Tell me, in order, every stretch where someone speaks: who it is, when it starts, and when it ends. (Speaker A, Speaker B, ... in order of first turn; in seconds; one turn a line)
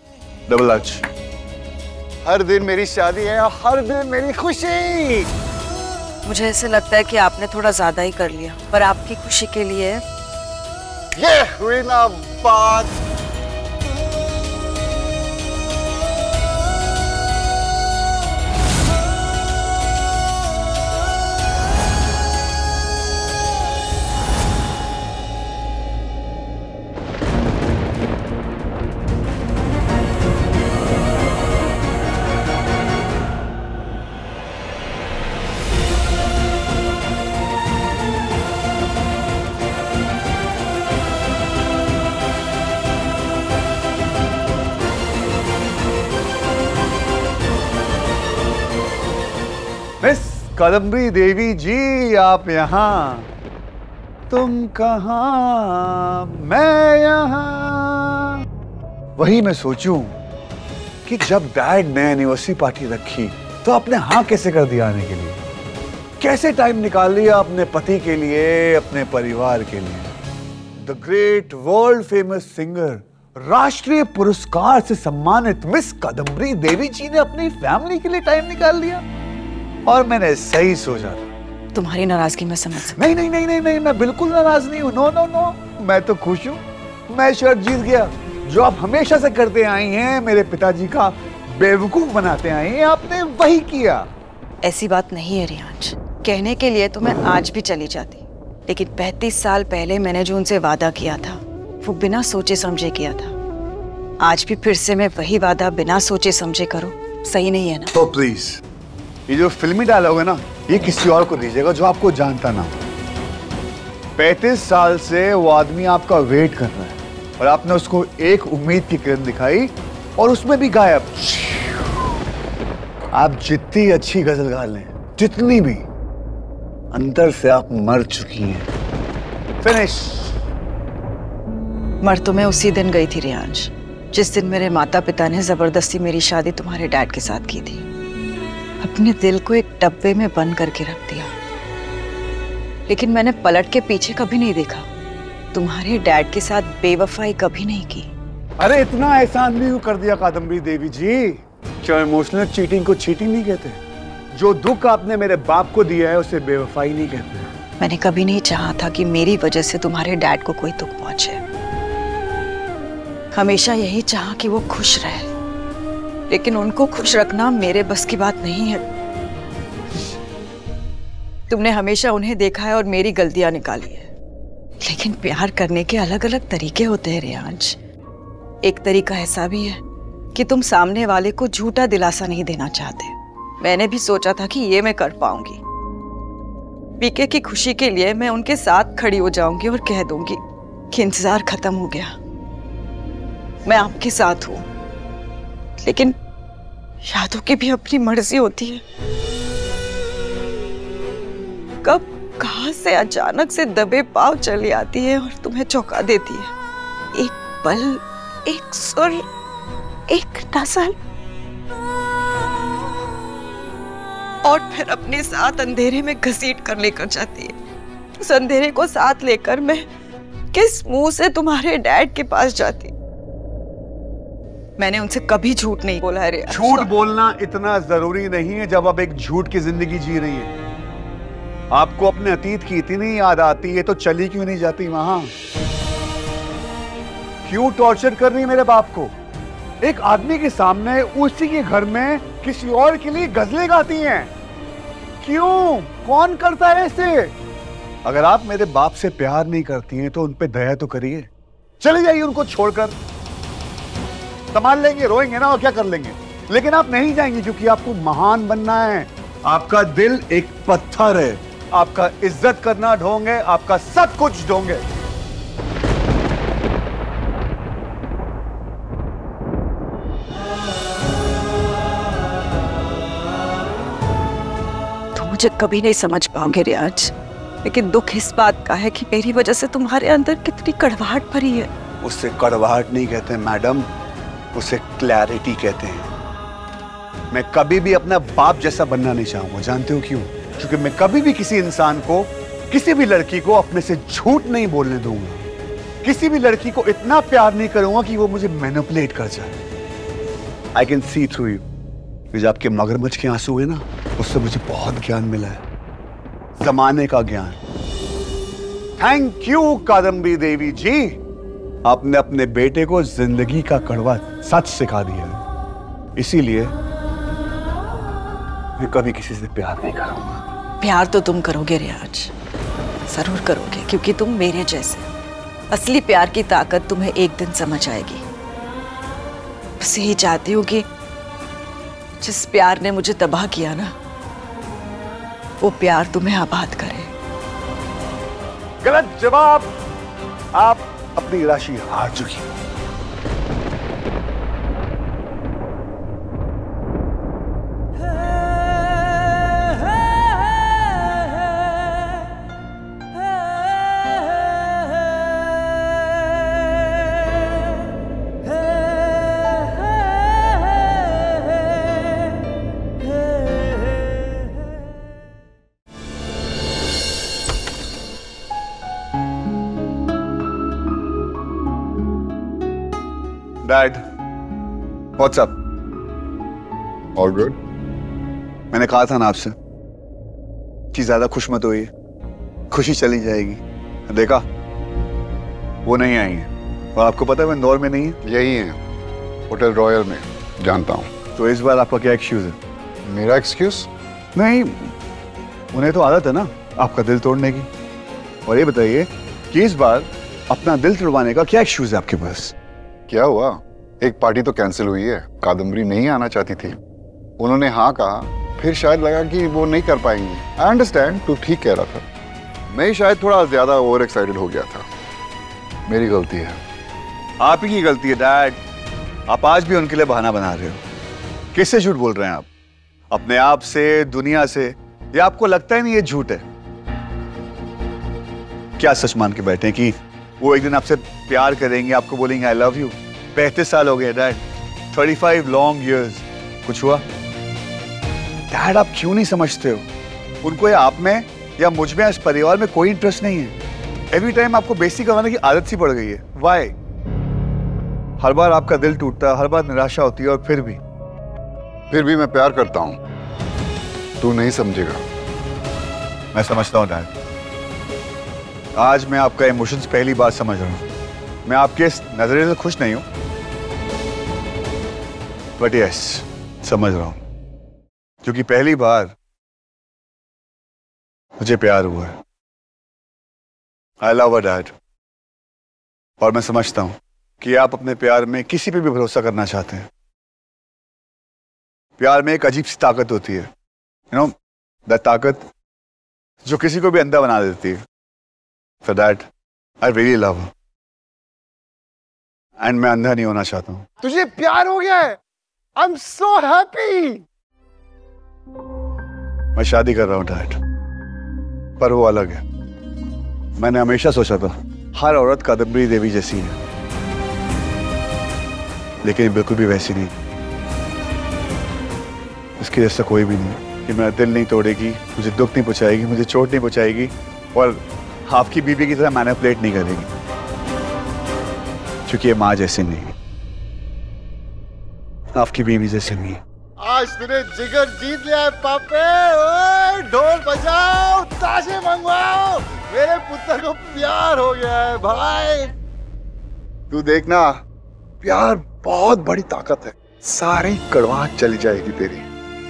Speaker A: 0.5-1.0
Speaker B: 2.2-5.3
Speaker C: 6.2-10.0
Speaker B: 11.2-12.9
Speaker A: 50.0-53.3
Speaker A: 54.3-58.4
Speaker A: 59.2-60.1
Speaker A: 61.0-65.4
Speaker A: 66.2-70.1
Speaker A: 70.8-79.0
Speaker A: 79.8-81.2
Speaker C: 81.7-83.0
Speaker A: 82.9-94.0
Speaker C: 94.6-103.3
Speaker C: 104.2-107.9
Speaker A: 107.9-108.6
Speaker A: 109.3-112.7
Speaker A: 114.2-121.9
Speaker A: 123.1-125.8
Speaker A: 126.9-128.7
Speaker A: 129.6-130.3
Speaker C: 132.0-137.8
Speaker C: 138.8-141.3
Speaker C: 142.9-144.9
Speaker C: 145.5-148.1
Speaker A: 148.6-153.8
Speaker A: 154.3-157.5
Speaker C: 157.8-161.4
Speaker C: 163.3-165.3
Speaker C: 166.3-168.8
Speaker C: 171.5-174.1
Speaker C: 174.8-177.8
Speaker C: 178.6-179.8
Speaker C: 180.3-185.6
Speaker C: 187.0-192.1
Speaker C: 193.6-194.7
Speaker C: 195.8-196.2
Speaker C: 197.0-198.8
Speaker C: 201.8-206.5
Speaker C: 207.1-209.3
Speaker C: 210.1-210.9
Speaker C: 214.4-217.6
Speaker C: 218.2-219.8
Speaker C: 220.5-222.9
Speaker C: 224.8-226.9
Speaker A: 226.5-230.5
Speaker A: 231.7-235.3
Speaker A: 237.4-239.1
Speaker A: 239.8-244.3
Speaker A: 245.2-247.3
Speaker A: 248.0-251.3
Speaker A: 251.8-252.9
Speaker A: 254.5-264.8
Speaker C: 275.1-281.7
Speaker A: 282.0-283.9
Speaker A: 284.5-286.1
Speaker A: 287.3-295.4
Speaker A: 296.0-299.6
Speaker A: 300.7-301.6
Speaker A: 302.3-305.6
Speaker A: 306.6-307.6
Speaker A: 309.0-311.2
Speaker A: 311.8-315.4
Speaker A: 316.1-316.7
Speaker A: 318.8-320.4
Speaker C: 320.8-322.3
Speaker C: 323.1-325.1
Speaker C: 325.7-328.2
Speaker C: 329.8-330.9
Speaker C: 332.2-333.9
Speaker C: 335.6-337.1
Speaker A: 338.8-339.7
Speaker A: 340.6-342.4
Speaker A: 373.6-374.0
Speaker A: 375.2-375.5
Speaker B: 377.1-377.5
Speaker A: 378.7-379.5
Speaker A: 380.9-381.9
Speaker A: 382.7-384.4
Speaker A: 385.9-388.2
Speaker B: 388.2-388.8
Speaker B: 389.5-391.1
Speaker A: 391.4-392.6
Speaker B: 393.1-393.9
Speaker A: 394.3-394.9
Speaker A: 395.7-397.7
Speaker A: 398.4-402.5
Speaker B: 403.1-406.8
Speaker B: 407.4-412.0
Speaker B: 412.7-414.9
Speaker B: 415.9-416.6
Speaker A: 417.4-418.6
Speaker A: 419.3-420.8
Speaker A: 421.5-422.5
Speaker A: 423.1-426.4
Speaker A: 428.8-437.0
Speaker A: 438.5-439.8
Speaker A: 440.4-443.6
Speaker A: 444.1-446.7
Speaker A: 448.2-450.8
Speaker B: 451.9-453.0
Speaker B: 454.2-455.0
Speaker A: 456.3-457.1
Speaker A: 458.8-460.8
Speaker A: 461.4-463.0
Speaker A: 465.6-467.2
Speaker A: 468.2-469.1
Speaker A: 471.4-472.1
Speaker A: 474.0-474.7
Speaker A: 476.2-479.9
Speaker A: 482.0-483.5
Speaker A: 484.9-485.4
Speaker A: 486.4-487.8
Speaker A: 488.8-489.3
Speaker A: 489.8-490.5
Speaker A: 492.6-493.9
Speaker B: 494.0-495.2
Speaker B: 495.8-497.2
Speaker A: 499.6-500.6
Speaker A: 501.8-502.4
Speaker A: 503.6-506.6
Speaker A: 509.0-510.1
Speaker A: 512.6-520.1
Speaker A: 522.1-523.1
Speaker A: 525.4-526.4
Speaker B: 526.8-535.7
Speaker B: 536.9-537.6
Speaker B: 538.2-542.2